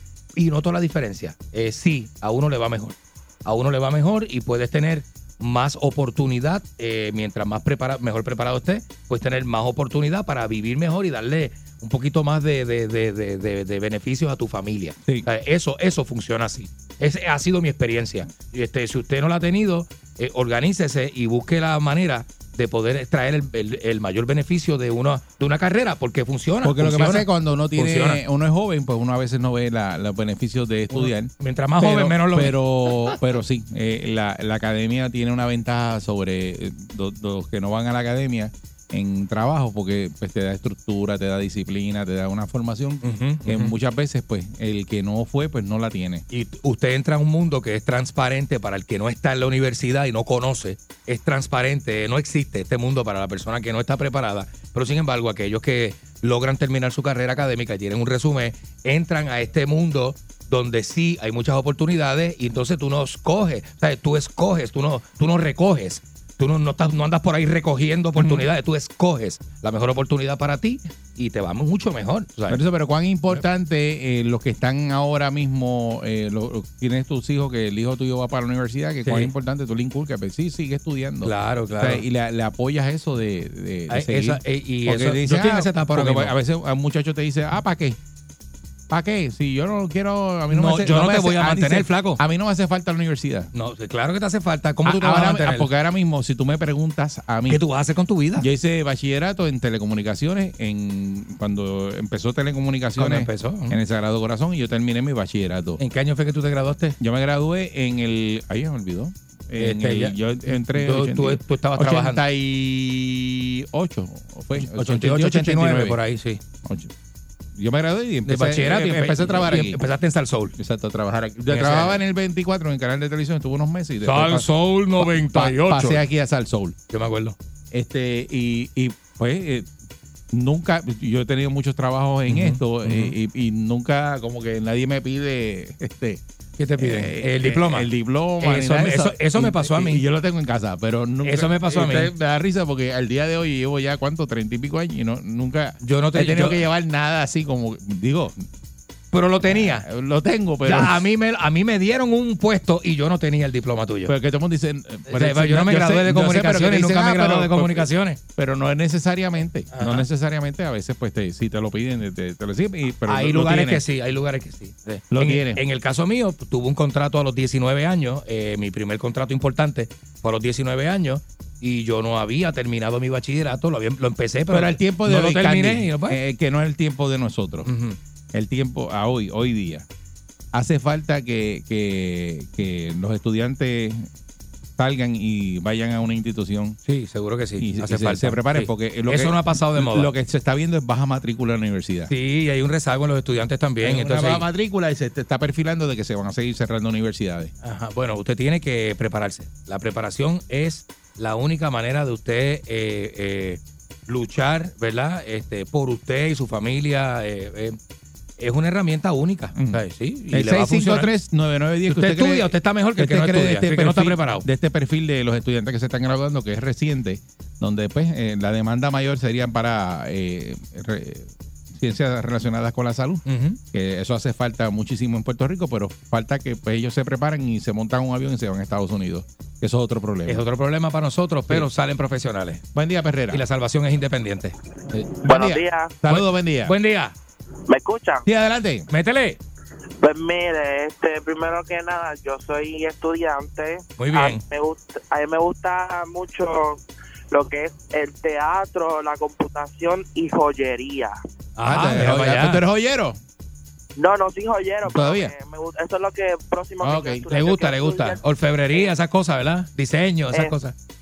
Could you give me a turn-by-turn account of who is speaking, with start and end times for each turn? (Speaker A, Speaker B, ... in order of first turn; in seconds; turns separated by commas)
Speaker A: 0.3-28.2, Speaker B: 26.6-46.2, Speaker A: 30.9-33.2, Speaker A: 43.0-43.7, Speaker A: 46.3-72.6, Speaker B: 68.2-68.5, Speaker B: 72.5-88.0, Speaker A: 79.0-79.3, Speaker A: 81.2-82.0, Speaker A: 83.9-86.3, Speaker B: 88.9-93.5, Speaker A: 90.5-92.2, Speaker A: 93.5-95.7, Speaker B: 94.8-97.6, Speaker A: 97.5-98.5, Speaker B: 98.4-105.8, Speaker A: 103.0-103.8, Speaker A: 105.8-107.0, Speaker B: 107.0-116.0, Speaker A: 109.6-112.2, Speaker A: 114.6-116.4, Speaker B: 116.6-116.9, Speaker B: 117.5-119.8, Speaker A: 118.2-120.5, Speaker B: 120.6-126.8, Speaker A: 121.5-122.0, Speaker A: 124.0-126.0, Speaker A: 126.9-127.3, Speaker B: 127.7-129.7, Speaker B: 130.3-136.2, Speaker A: 132.3-133.1, Speaker A: 136.6-137.9, Speaker B: 136.8-148.4, Speaker A: 138.4-140.0, Speaker A: 141.2-142.1, Speaker A: 145.8-146.6, Speaker A: 149.1-149.9, Speaker B: 149.5-151.0, Speaker A: 150.6-154.1, Speaker B: 154.1-163.8, Speaker A: 155.1-158.2, Speaker A: 159.7-160.1, Speaker A: 163.1-176.2, Speaker B: 165.1-165.6, Speaker B: 174.5-177.7, Speaker A: 177.6-178.0, Speaker B: 178.3-179.8, Speaker B: 180.5-184.1, Speaker B: 184.8-186.8, Speaker A: 186.8-190.1, Speaker B: 187.6-192.1, Speaker A: 192.1-194.4, Speaker B: 193.8-197.5, Speaker A: 197.6-207.8, Speaker A: 208.4-211.1, Speaker B: 209.6-230.4, Speaker A: 211.9-214.4, Speaker A: 223.2-223.6, Speaker A: 230.3-232.6, Speaker B: 232.7-233.4, Speaker A: 233.3-235.1, Speaker C: 235.2-235.9, Speaker B: 235.2-236.7, Speaker A: 236.1-237.1, Speaker C: 237.7-238.3, Speaker B: 238.2-238.9, Speaker A: 238.9-239.4, Speaker C: 240.0-246.8, Speaker A: 244.0-244.4, Speaker C: 247.3-251.2, Speaker A: 251.6-252.6, Speaker B: 251.7-253.2, Speaker C: 253.9-258.9, Speaker B: 254.8-255.3, Speaker B: 256.8-257.2, Speaker A: 257.3-260.7